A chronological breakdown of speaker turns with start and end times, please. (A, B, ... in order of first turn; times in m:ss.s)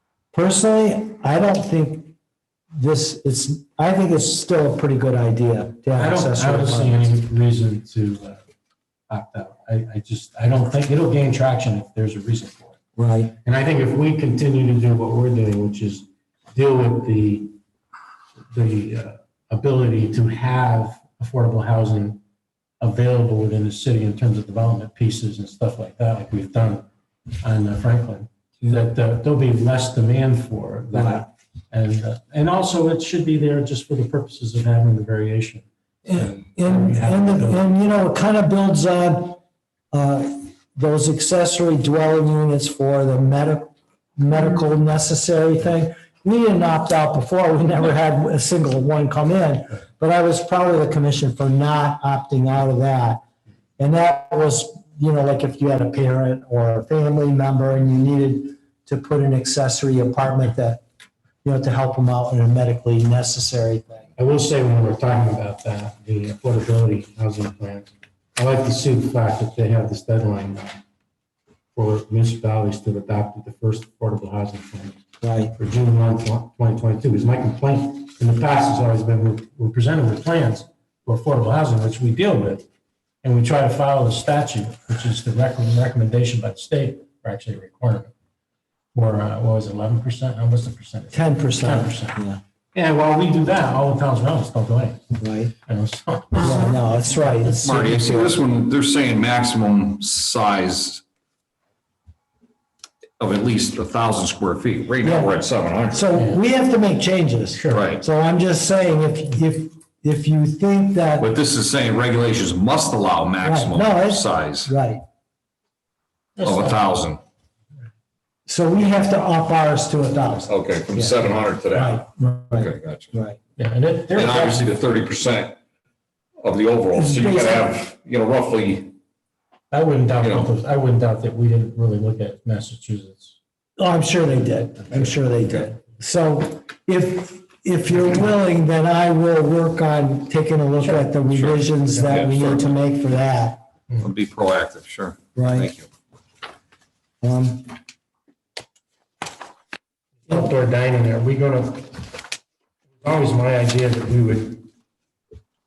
0:00.3-0:02.1 A
0:02.7-0:07.0 A
0:06.0-0:08.4 B
0:09.1-0:12.8 B
0:13.0-0:13.3 A
0:13.4-0:17.5 B
0:18.5-0:22.2 B
0:22.8-0:26.9 B
0:27.4-0:37.6 B
0:30.9-0:31.2 A
0:36.0-0:39.4 A
0:39.9-0:53.2 A
0:53.8-1:00.8 A
1:01.4-1:04.1 A
1:04.2-1:10.8 B
1:11.7-1:15.0 B
1:15.2-1:15.5 A
1:15.5-1:22.6 B
1:23.2-1:28.1 B
1:28.9-1:32.2 B
1:31.1-1:32.4 A
1:32.7-1:35.1 B
1:35.2-1:35.5 A
1:35.7-1:36.6 B
1:36.4-1:38.4 A
1:37.6-1:41.0 C
1:43.2-1:46.0 C
1:45.0-1:45.3 A
1:45.9-1:51.3 A
1:47.5-1:47.8 B
1:47.7-1:48.0 C
1:51.2-1:54.7 C
1:53.4-1:55.0 A
1:56.4-1:56.8 B
1:56.4-1:57.2 C
1:58.4-2:03.4 A
2:00.5-2:03.1 C
2:03.6-2:04.7 B
2:04.1-2:05.6 C
2:06.4-2:08.9 C
2:06.9-2:07.7 A
2:09.7-2:13.3 B
2:10.2-2:10.5 C
2:13.8-2:23.6 A
2:20.8-2:22.2 B
2:22.1-2:22.6 C
2:24.0-2:25.9 C
2:25.4-2:25.7 A
2:27.2-2:27.8 A
2:30.2-2:32.2 B
2:33.0-2:34.7 B